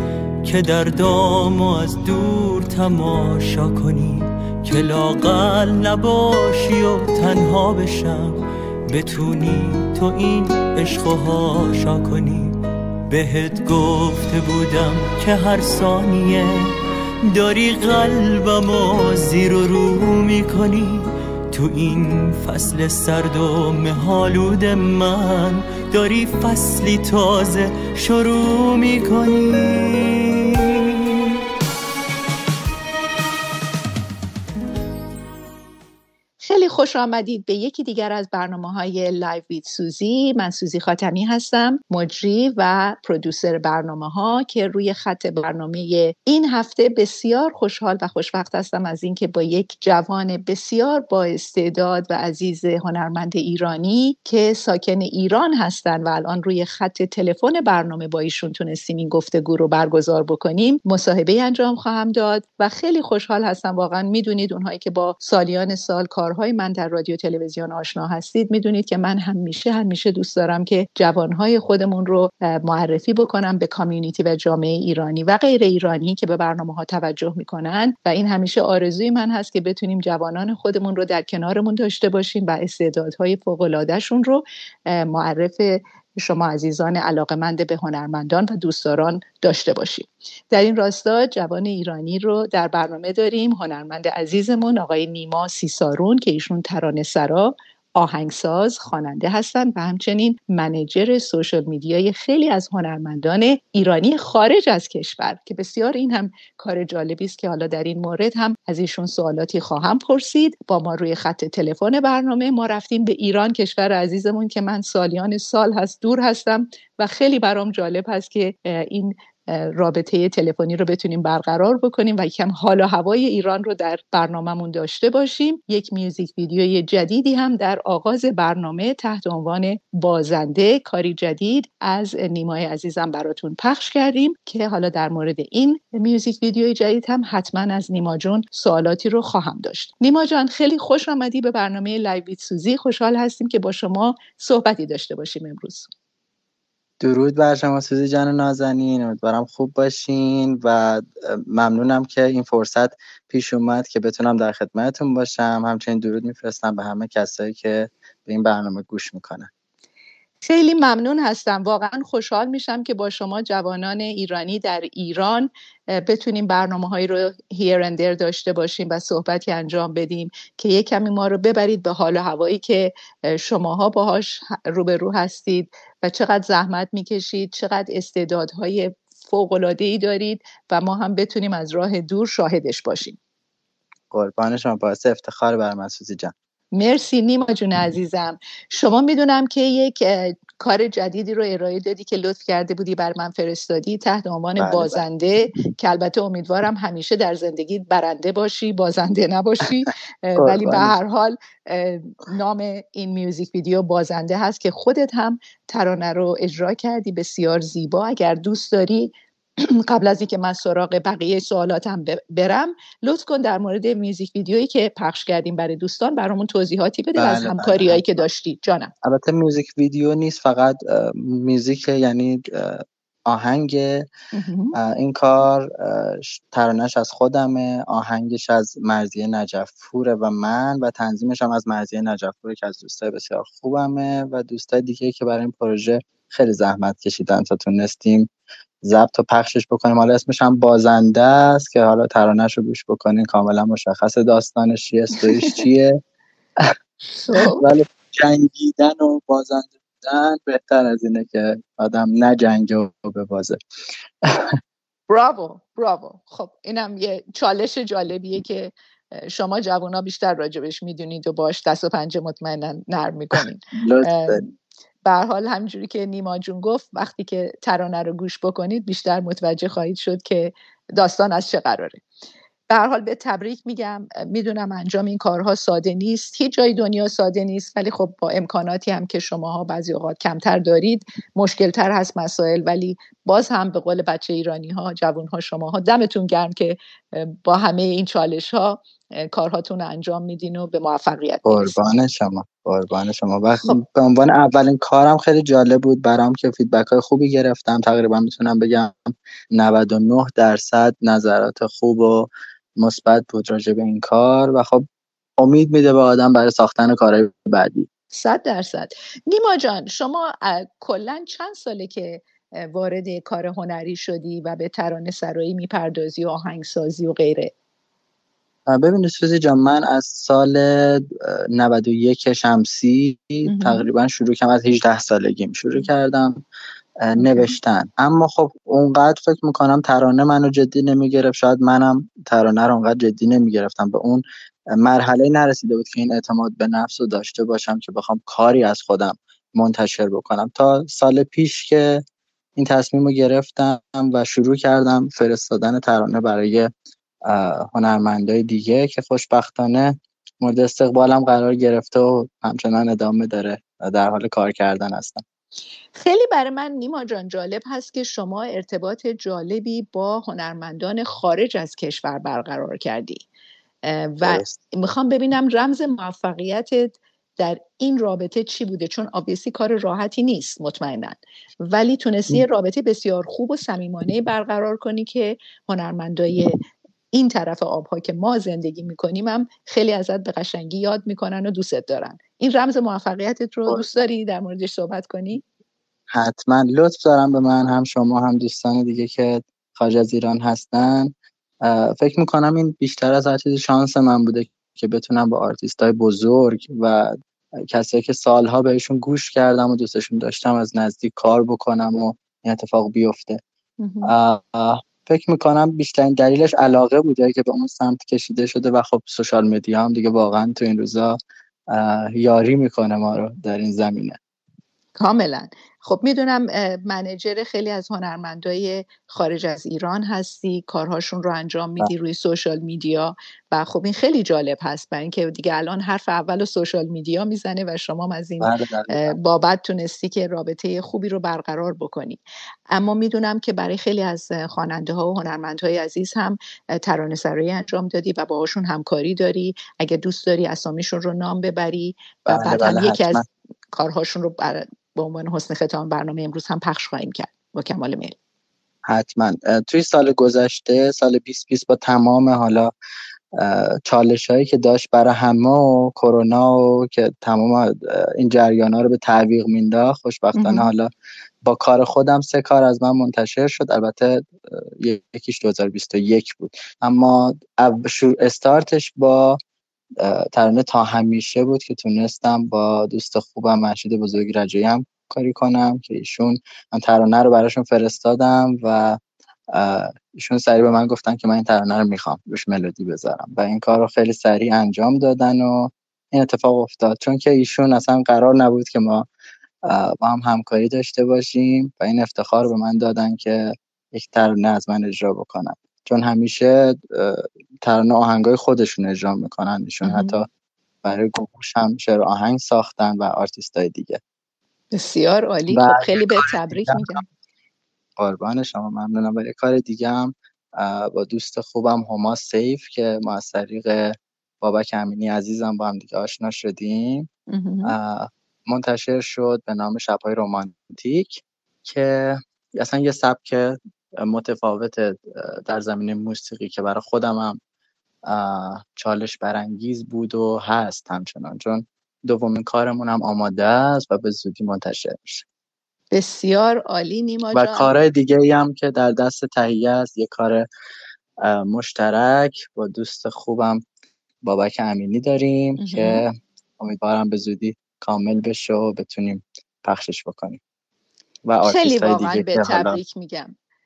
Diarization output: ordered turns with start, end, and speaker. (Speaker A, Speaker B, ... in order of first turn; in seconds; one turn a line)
Speaker A: 0.4-12.6
Speaker A: 13.1-16.7
Speaker A: 17.3-30.7
Speaker B: 36.4-145.9
Speaker C: 147.0-159.5
Speaker B: 160.4-183.2
Speaker C: 184.1-186.3
Speaker B: 186.7-218.9
Speaker C: 194.6-195.0
Speaker C: 200.3-200.9
Speaker C: 217.2-218.2
Speaker C: 219.0-224.1
Speaker B: 224.3-224.8
Speaker C: 224.8-238.3
Speaker C: 238.8-246.0
Speaker B: 247.1-247.6
Speaker C: 247.3-253.6
Speaker B: 255.1-264.5
Speaker C: 263.8-264.4
Speaker B: 265.0-272.0
Speaker B: 272.7-291.8
Speaker C: 291.4-304.8
Speaker C: 305.4-307.9
Speaker B: 308.1-317.5
Speaker C: 318.7-326.4
Speaker B: 323.4-323.9
Speaker C: 327.0-334.2
Speaker B: 327.2-327.5
Speaker C: 334.7-342.0
Speaker C: 342.6-346.7
Speaker C: 347.3-355.2
Speaker B: 355.9-363.2
Speaker B: 363.8-376.6
Speaker C: 364.2-364.6
Speaker B: 377.1-385.4
Speaker C: 386.1-391.1
Speaker C: 391.6-397.1
Speaker C: 397.7-403.4
Speaker B: 403.8-404.1
Speaker C: 404.0-411.2
Speaker C: 411.7-414.2
Speaker B: 414.9-448.1
Speaker C: 428.4-429.2
Speaker C: 442.3-443.2
Speaker C: 448.9-452.7
Speaker C: 453.4-460.9
Speaker B: 460.3-460.7
Speaker C: 461.4-469.4
Speaker C: 470.0-479.0
Speaker C: 479.5-489.1
Speaker C: 489.6-500.3
Speaker B: 499.8-500.2
Speaker C: 500.8-504.0
Speaker B: 504.7-507.0
Speaker C: 505.5-507.0
Speaker C: 508.0-517.1
Speaker B: 517.3-517.7
Speaker C: 517.6-527.4
Speaker C: 528.1-535.2
Speaker B: 535.9-537.7
Speaker C: 537.3-540.5
Speaker C: 541.2-543.6
Speaker C: 544.2-550.4
Speaker B: 545.6-546.0
Speaker C: 551.2-552.8
Speaker B: 551.4-553.3